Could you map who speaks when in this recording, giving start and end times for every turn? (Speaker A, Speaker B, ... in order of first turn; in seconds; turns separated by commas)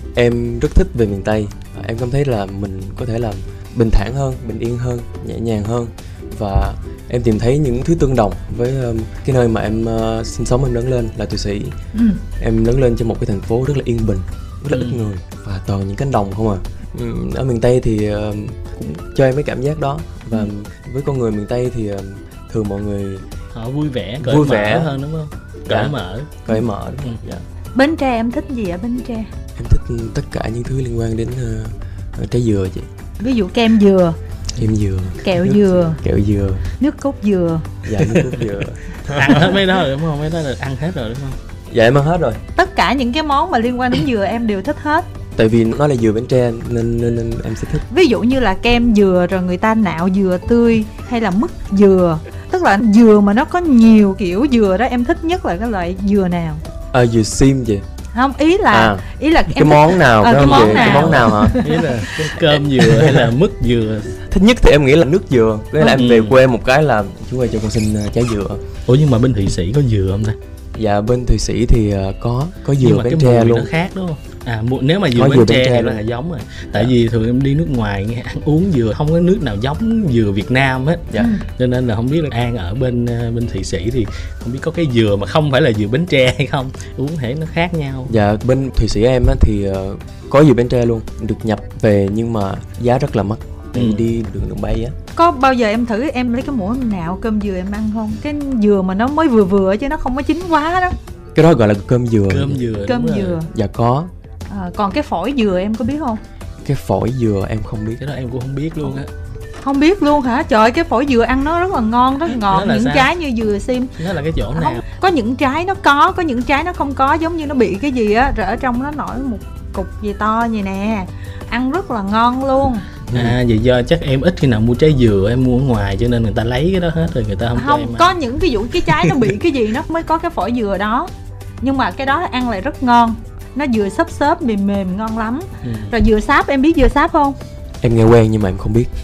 Speaker A: 0.1-11.8, Speaker B: 11.9-12.2, Speaker A: 12.4-23.2, Speaker C: 14.7-15.1, Speaker C: 23.6-26.4, Speaker A: 24.2-24.9, Speaker A: 25.7-25.9, Speaker A: 26.5-27.4, Speaker B: 27.8-29.3, Speaker A: 29.6-32.9, Speaker B: 33.2-34.2, Speaker A: 34.6-36.6, Speaker B: 35.2-36.0, Speaker B: 36.8-37.7, Speaker A: 37.9-39.5, Speaker C: 38.0-38.3, Speaker C: 39.0-41.4, Speaker A: 41.7-42.4, Speaker B: 42.5-45.1, Speaker A: 45.4-47.9, Speaker B: 47.9-56.6, Speaker A: 56.9-57.8, Speaker B: 58.1-61.9, Speaker A: 58.7-61.6, Speaker C: 60.4-64.1, Speaker A: 62.5-63.3, Speaker A: 64.3-68.6, Speaker C: 65.8-66.4, Speaker C: 68.9-70.4, Speaker A: 70.8-73.7, Speaker C: 72.8-88.1, Speaker A: 75.1-76.0, Speaker B: 81.2-81.5, Speaker A: 88.1-95.0, Speaker C: 93.8-94.1, Speaker B: 95.2-101.0, Speaker A: 101.3-102.6, Speaker C: 102.3-103.4, Speaker B: 102.9-103.5, Speaker A: 103.5-104.1, Speaker B: 104.5-106.2, Speaker A: 106.6-108.0, Speaker C: 108.0-109.1, Speaker B: 109.6-114.0, Speaker C: 112.5-113.1, Speaker C: 114.0-114.8, Speaker B: 114.5-122.9, Speaker A: 123.1-123.4, Speaker C: 123.1-128.1, Speaker B: 127.5-131.1, Speaker C: 128.9-129.2, Speaker B: 131.6-137.4, Speaker C: 135.6-135.9, Speaker A: 137.8-138.9